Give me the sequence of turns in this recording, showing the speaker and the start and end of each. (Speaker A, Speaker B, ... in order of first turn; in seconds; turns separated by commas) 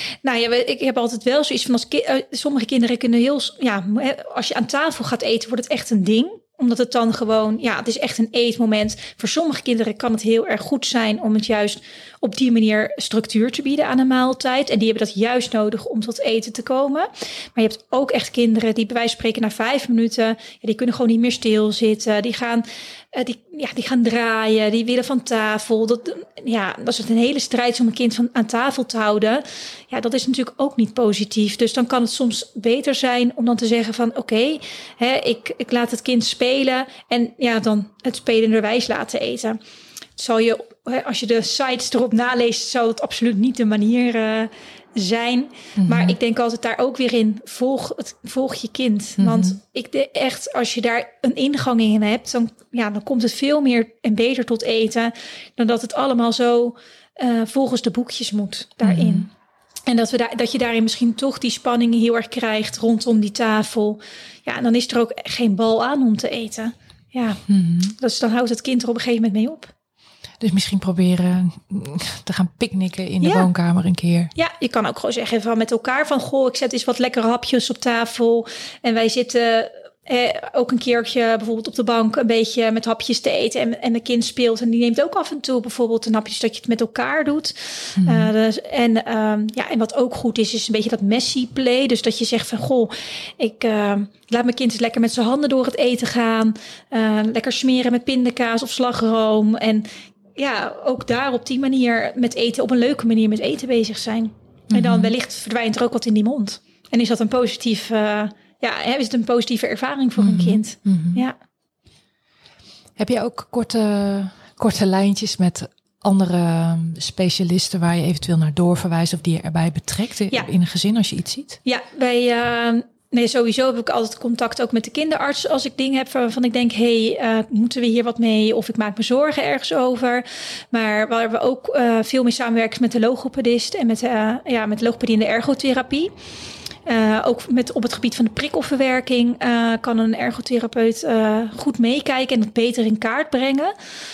Speaker A: 0.2-39.6, Speaker A: 40.2-59.3, Speaker B: 45.8-46.2, Speaker B: 49.2-49.6, Speaker B: 58.8-59.3, Speaker A: 59.9-67.4, Speaker B: 67.5-67.9, Speaker A: 68.0-69.7, Speaker B: 70.4-74.3, Speaker A: 73.2-73.5, Speaker A: 74.3-111.4, Speaker B: 88.0-88.3, Speaker B: 104.7-105.1, Speaker B: 110.2-111.2, Speaker B: 113.0-121.6, Speaker A: 121.6-136.1, Speaker A: 136.8-143.7